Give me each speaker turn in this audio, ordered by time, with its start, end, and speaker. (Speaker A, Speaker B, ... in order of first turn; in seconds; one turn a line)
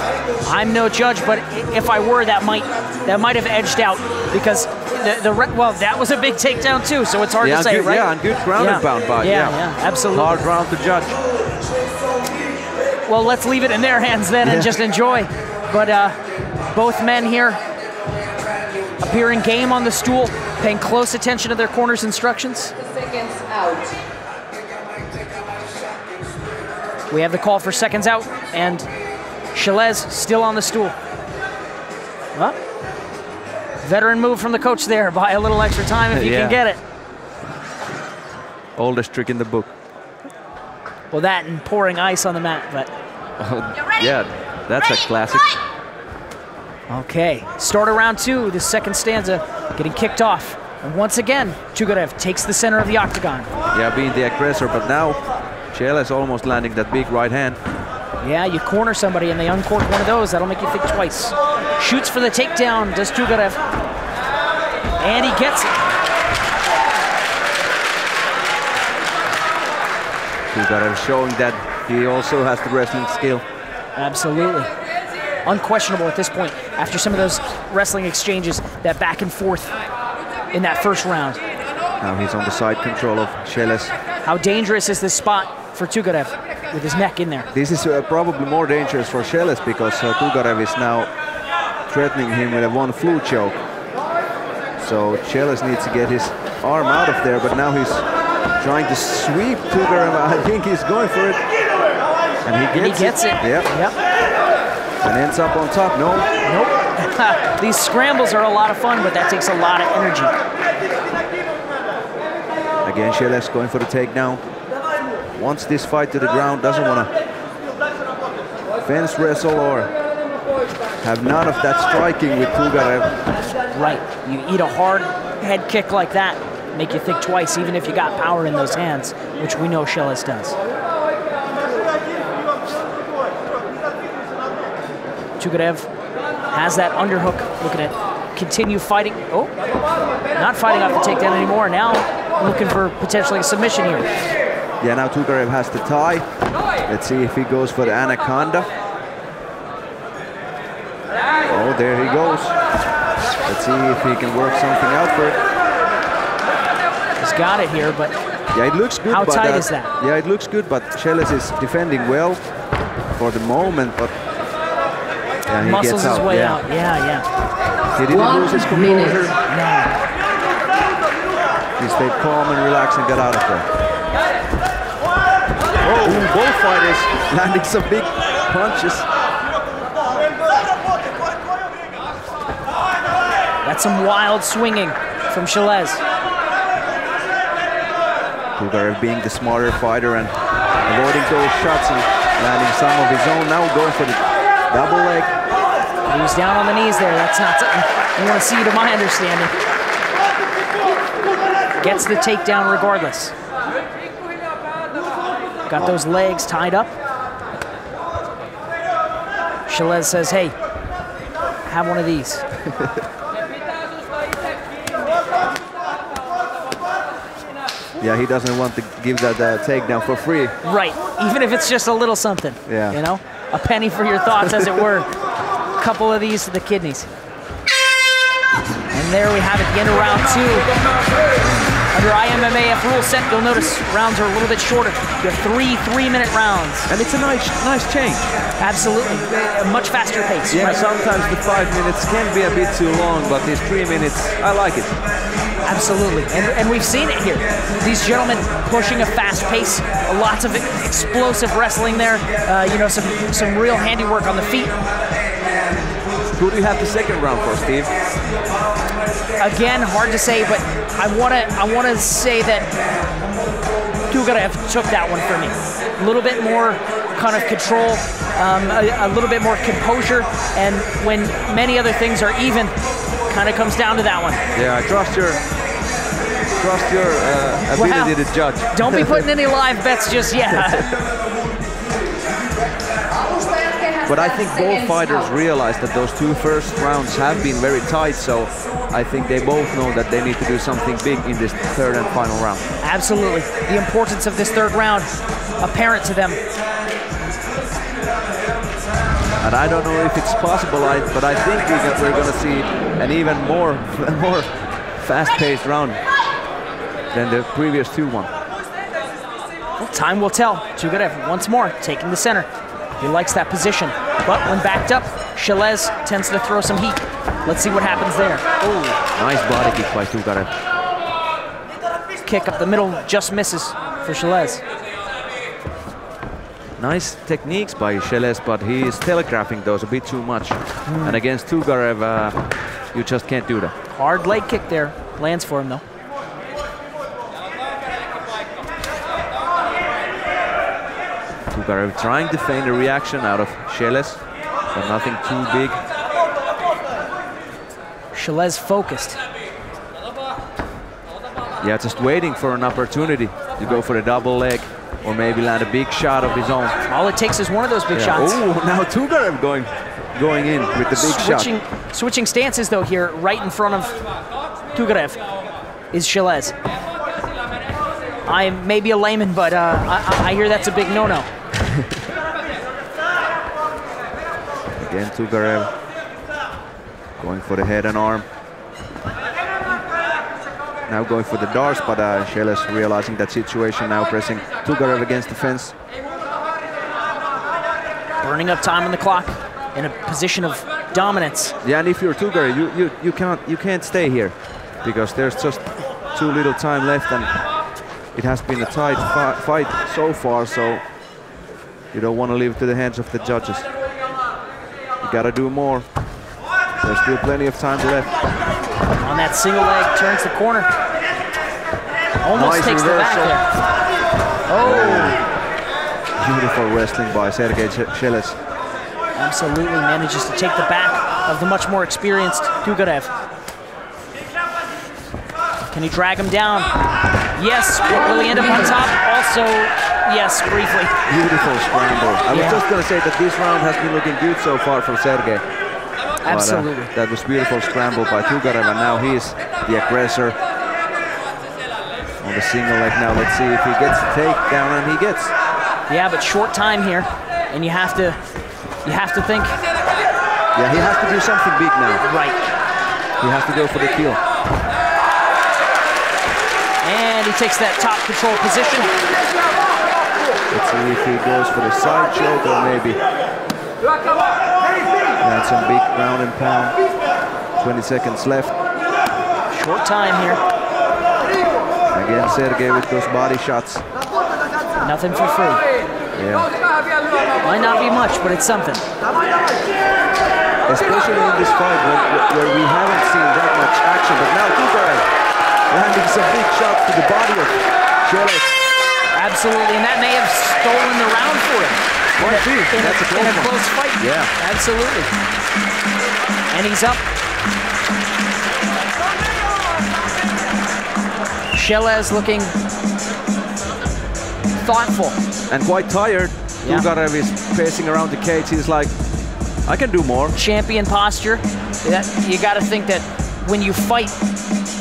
Speaker A: 0.4-10.3
Speaker B: 7.4-11.2
Speaker A: 13.1-16.1
Speaker B: 14.4-14.8
Speaker A: 16.7-17.6
Speaker A: 19.0-22.7
Speaker C: 23.0-23.9
Speaker A: 27.1-28.9
Speaker A: 29.5-30.9
Speaker A: 33.8-36.8
Speaker B: 36.1-36.6
Speaker B: 38.8-39.7
Speaker A: 41.1-42.9
Speaker B: 43.4-45.5
Speaker A: 46.9-53.5
Speaker B: 53.7-55.2
Speaker B: 55.7-57.6
Speaker A: 58.2-63.6
Speaker A: 65.0-65.8
Speaker B: 70.5-73.4
Speaker A: 74.0-74.7
Speaker A: 75.4-79.8
Speaker A: 80.5-81.4
Speaker B: 82.0-83.9
Speaker A: 84.2-87.5
Speaker B: 87.5-91.1
Speaker B: 91.9-93.6
Speaker B: 94.8-98.0
Speaker B: 98.6-101.4
Speaker B: 102.4-103.7
Speaker A: 102.7-104.0
Speaker B: 105.0-106.3
Speaker A: 106.4-110.3
Speaker B: 112.8-114.4
Speaker B: 115.3-117.1
Speaker B: 118.8-119.9
Speaker B: 121.0-123.2
Speaker A: 123.6-130.6
Speaker A: 135.4-135.9
Speaker A: 136.5-139.5
Speaker A: 140.3-144.1
Speaker B: 144.8-146.2
Speaker B: 146.8-148.7
Speaker B: 151.4-152.6
Speaker B: 153.4-155.4
Speaker A: 157.2-158.2
Speaker B: 158.5-162.4
Speaker A: 159.1-159.9
Speaker B: 163.1-164.1
Speaker B: 165.5-166.6
Speaker A: 165.6-167.2
Speaker B: 167.9-169.3
Speaker C: 168.1-169.3
Speaker A: 169.5-169.9
Speaker B: 171.8-173.7
Speaker B: 175.8-179.1
Speaker A: 183.6-186.0
Speaker B: 188.6-190.3
Speaker B: 190.8-195.3
Speaker A: 196.1-199.6
Speaker A: 201.8-203.3
Speaker A: 205.7-206.9
Speaker A: 209.7-210.5
Speaker A: 211.6-212.4
Speaker B: 212.7-212.9
Speaker B: 218.0-220.5
Speaker A: 220.6-225.1
Speaker B: 222.7-223.0
Speaker A: 225.8-227.1
Speaker A: 228.9-230.7
Speaker A: 231.9-236.9
Speaker B: 236.9-238.3
Speaker A: 238.6-240.8
Speaker B: 240.5-244.9
Speaker A: 245.6-254.8
Speaker B: 256.3-257.9
Speaker A: 259.4-262.7
Speaker A: 264.1-272.7
Speaker A: 273.3-274.4
Speaker B: 274.5-275.4
Speaker B: 276.6-279.2
Speaker A: 277.7-278.2
Speaker A: 278.7-280.9
Speaker B: 280.5-280.9
Speaker C: 283.2-285.3
Speaker B: 284.1-292.6
Speaker A: 292.8-296.4
Speaker B: 299.4-306.0
Speaker B: 307.1-308.3
Speaker A: 309.8-318.9
Speaker B: 317.7-318.0
Speaker B: 319.1-320.5
Speaker A: 322.2-324.6
Speaker B: 326.8-332.4
Speaker A: 330.9-331.2
Speaker B: 332.9-333.7
Speaker A: 333.9-335.8
Speaker B: 341.5-345.8
Speaker A: 348.1-349.2
Speaker B: 351.6-356.7
Speaker A: 356.9-358.4
Speaker B: 357.9-361.5
Speaker A: 360.9-363.9
Speaker A: 364.7-365.2
Speaker A: 365.9-366.5
Speaker A: 368.2-371.3
Speaker B: 374.8-375.7
Speaker B: 377.2-378.2
Speaker B: 380.9-385.7
Speaker A: 388.2-391.5
Speaker B: 391.6-397.3
Speaker B: 398.1-400.8
Speaker B: 401.9-403.6
Speaker B: 405.0-405.9
Speaker B: 406.8-408.1
Speaker A: 408.9-410.7
Speaker A: 412.2-413.5
Speaker B: 412.3-413.4
Speaker A: 414.5-415.2
Speaker B: 414.5-415.2
Speaker B: 416.2-418.4
Speaker A: 419.1-423.1
Speaker A: 425.7-426.7
Speaker A: 427.3-430.9
Speaker B: 431.1-435.4
Speaker A: 432.3-432.6
Speaker A: 436.2-436.9
Speaker B: 436.2-440.4
Speaker B: 442.2-445.3
Speaker A: 445.9-448.2
Speaker A: 448.8-449.6
Speaker B: 450.5-452.0
Speaker A: 452.0-452.4
Speaker B: 453.2-454.2
Speaker A: 456.8-458.9
Speaker B: 460.5-463.0
Speaker B: 465.2-466.8
Speaker B: 467.6-468.5
Speaker A: 469.5-470.4
Speaker B: 471.9-473.8
Speaker A: 474.8-475.6
Speaker B: 476.1-476.5
Speaker A: 477.4-478.8
Speaker B: 480.6-485.1
Speaker B: 485.7-488.6
Speaker A: 489.1-495.1
Speaker B: 492.2-494.3
Speaker A: 496.5-497.0
Speaker A: 501.5-502.5
Speaker A: 504.6-505.2
Speaker B: 505.5-508.9
Speaker B: 509.6-510.4
Speaker A: 510.3-514.1